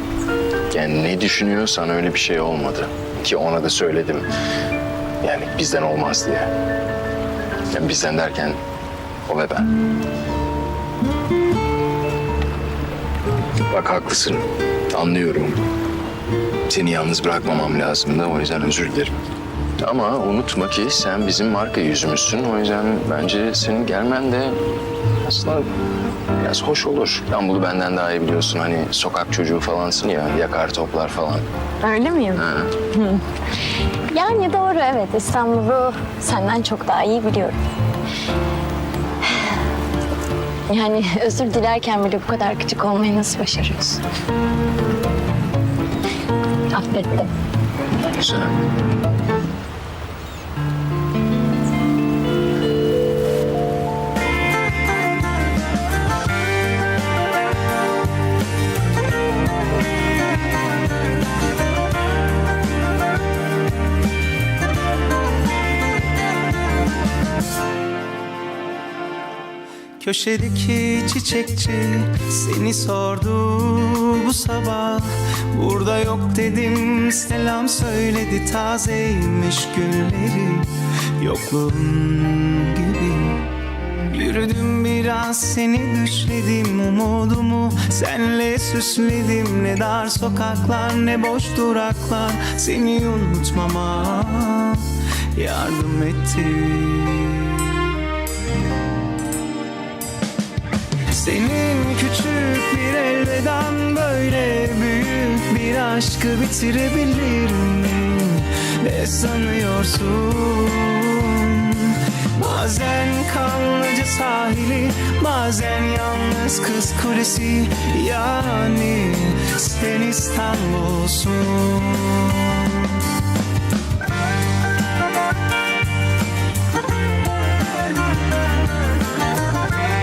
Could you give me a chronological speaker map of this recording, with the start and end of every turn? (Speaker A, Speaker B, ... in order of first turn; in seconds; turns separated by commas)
Speaker A: 0.7-4.2, Speaker A: 5.2-6.5, Speaker A: 7.7-8.6, Speaker A: 9.2-9.7, Speaker A: 13.7-15.6, Speaker A: 16.7-19.1, Speaker A: 19.8-24.6, Speaker A: 25.2-25.7, Speaker A: 26.4-31.4, Speaker B: 31.8-33.2, Speaker A: 32.3-32.7, Speaker B: 34.1-37.6, Speaker B: 40.7-44.0, Speaker B: 46.7-47.3, Speaker A: 48.2-48.6, Speaker C: 70.0-80.7, Speaker C: 81.2-83.5, Speaker C: 84.1-97.6, Speaker C: 101.1-122.6